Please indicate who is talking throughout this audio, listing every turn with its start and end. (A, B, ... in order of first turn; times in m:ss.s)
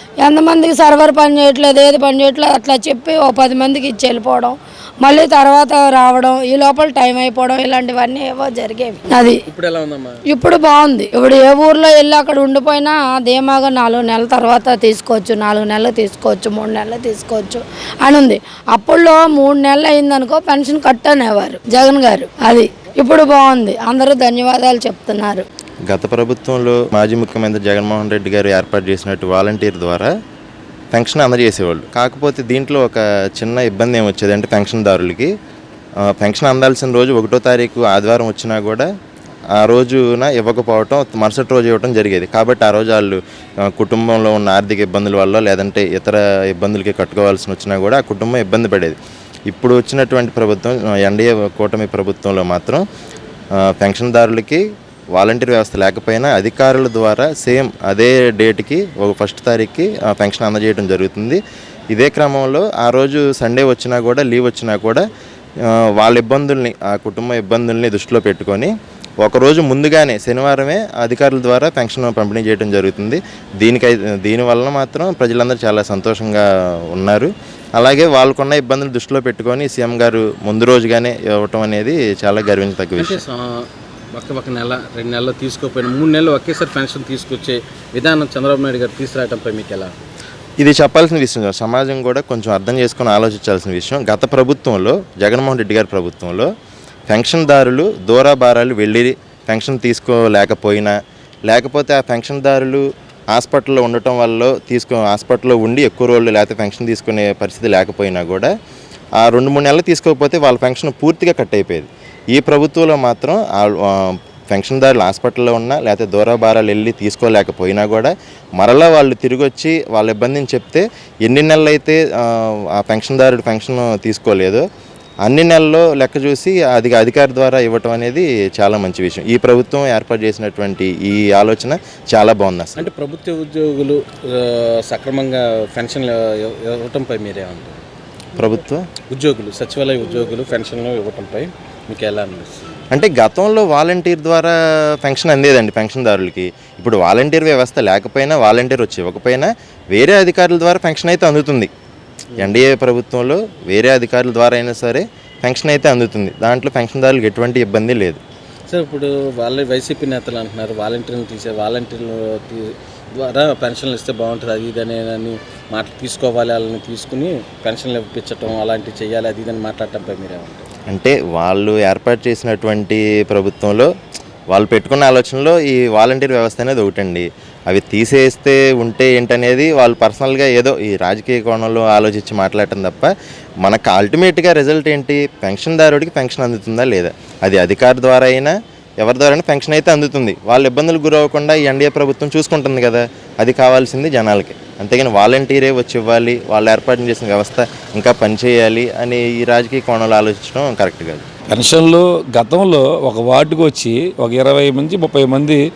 0:00.2-0:09.4 A
0:09.5-0:10.2 B
0:10.3-0:25.4 A
0:25.9-0:30.1 C
0:30.9-0:35.3 C
0:36.0-0:38.9 C
0:39.5-0:52.8 C
0:53.6-1:01.4 C
1:01.9-1:05.0 C
1:05.6-1:23.2 C
1:23.0-1:29.9 B
1:30.6-1:36.5 C
1:37.1-1:40.9 C
1:41.4-1:48.5 C
1:49.2-2:04.6 C
2:05.2-2:12.9 C
2:12.8-2:17.8 B
2:18.3-2:18.8 C
2:19.1-2:22.8 B
2:22.9-2:31.7 C
2:32.4-2:38.2 C
2:38.7-2:50.7 B
2:50.9-2:53.9 C
2:54.5-3:21.2 C
3:21.5-3:25.6 D